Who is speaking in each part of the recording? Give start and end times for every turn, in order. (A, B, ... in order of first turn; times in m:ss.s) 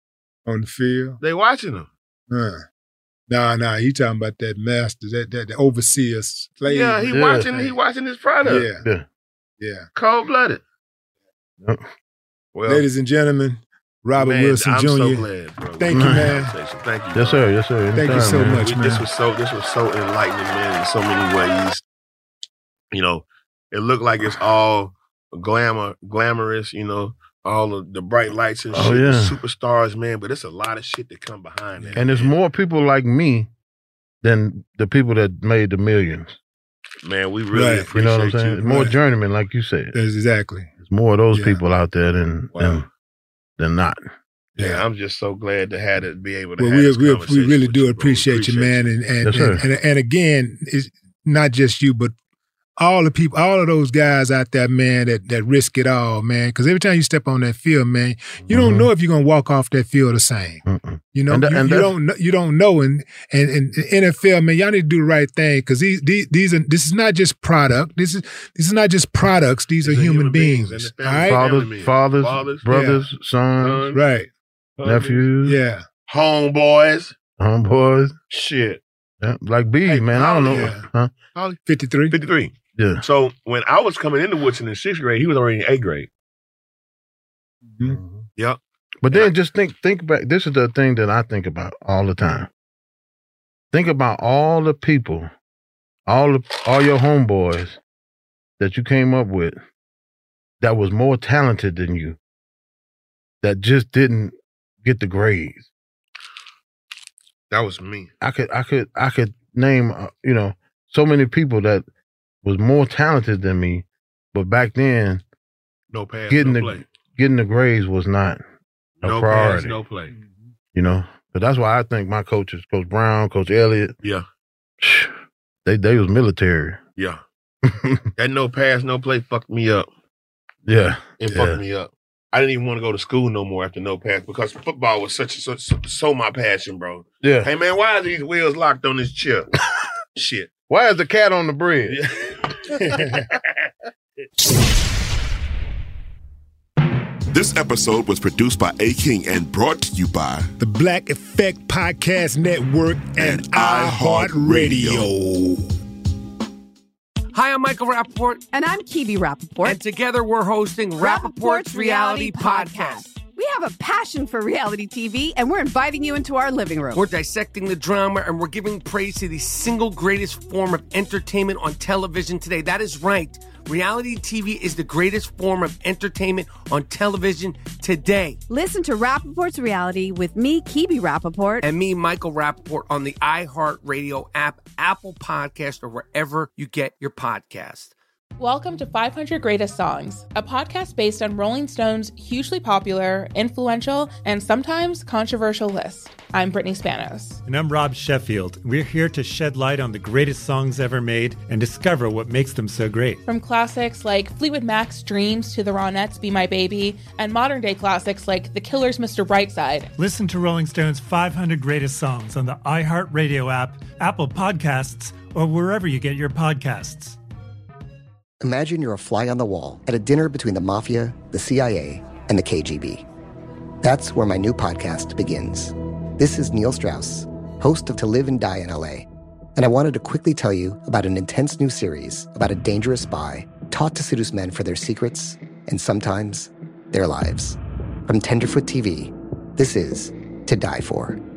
0:00.4-0:01.2 A
0:01.2-0:01.9 B
0:02.3-0:02.6 A
0:03.3-0:07.7 A
0:06.6-0:08.7 B
0:07.1-0:07.7 C
0:08.4-0:08.9 A
0:08.8-0:09.1 C
0:09.6-0:09.8 A
0:10.0-0:10.6 B
0:12.5-0:12.8 B
0:12.7-0:16.6 A
0:14.2-0:17.4 B
0:15.9-0:16.3 C
0:17.2-0:18.7 C
0:18.0-0:19.1 A
0:18.0-0:21.8 B
0:22.9-0:32.3 B
0:28.7-0:29.4 C
0:32.0-0:33.5 C
0:34.2-0:36.4 C
0:37.0-0:38.6 B
0:37.5-0:37.9 A
0:37.9-0:40.0 C
0:38.6-0:39.0 A
0:39.9-0:40.7 A
0:40.8-0:42.8 C
0:41.3-0:41.6 A
0:42.5-0:42.8 B
0:43.6-0:44.0 C
0:44.6-0:44.8 A
0:44.6-0:48.8 B
0:46.6-0:52.1 A
0:49.2-0:49.6 C
0:52.8-1:11.4 A
0:58.5-0:58.9 C
1:00.7-1:01.9 C
1:09.8-1:12.6 B
1:11.3-1:13.9 C
1:12.7-1:13.0 A
1:13.6-1:14.0 B
1:13.9-1:14.3 A
1:14.8-1:15.3 B
1:14.8-1:15.6 C
1:15.4-1:15.8 A
1:16.1-1:17.1 B
1:17.4-1:18.1 C
1:18.3-1:18.8 B
1:19.2-1:21.1 C
1:19.8-1:20.8 B
1:20.5-1:20.9 A
1:21.3-1:21.6 B
1:21.6-1:22.2 A
1:22.1-1:26.1 B
1:22.8-1:23.0 C
1:27.7-1:28.0 A
1:27.8-1:28.2 C
1:29.0-1:32.5 C
1:33.7-1:35.3 C
1:36.1-1:37.8 C
1:38.6-1:39.6 C
1:40.6-1:42.2 C
1:43.4-1:45.7 C
1:47.5-1:48.1 B
1:48.2-1:51.8 C
1:52.4-1:55.2 C
1:55.9-1:56.8 B
1:56.3-1:58.4 C
1:59.0-2:00.1 B
1:59.0-1:59.8 C
2:00.7-2:03.9 C
2:04.8-2:05.1 C
2:05.6-2:06.8 C
2:07.6-2:08.1 C
2:08.2-2:09.9 B
2:10.7-2:11.6 C
2:11.2-2:19.5 B
2:17.2-2:17.5 C
2:20.2-2:20.5 B
2:20.7-2:22.0 C
2:21.9-2:23.5 B
2:22.8-2:23.3 A
2:27.3-2:30.5 D
2:30.6-2:35.7 A
2:33.2-2:35.1 D
2:37.3-2:38.5 E
2:38.5-2:39.8 F
2:39.6-2:43.1 E
2:41.0-2:47.1 F
2:46.9-2:58.4 E
2:58.5-3:01.6 F
3:01.6-3:07.9 E
3:08.4-3:17.4 G
3:17.4-3:23.2 H
3:23.2-3:29.9 G
3:30.0-3:37.2 H
3:38.4-3:43.1 I
3:43.8-4:01.2 I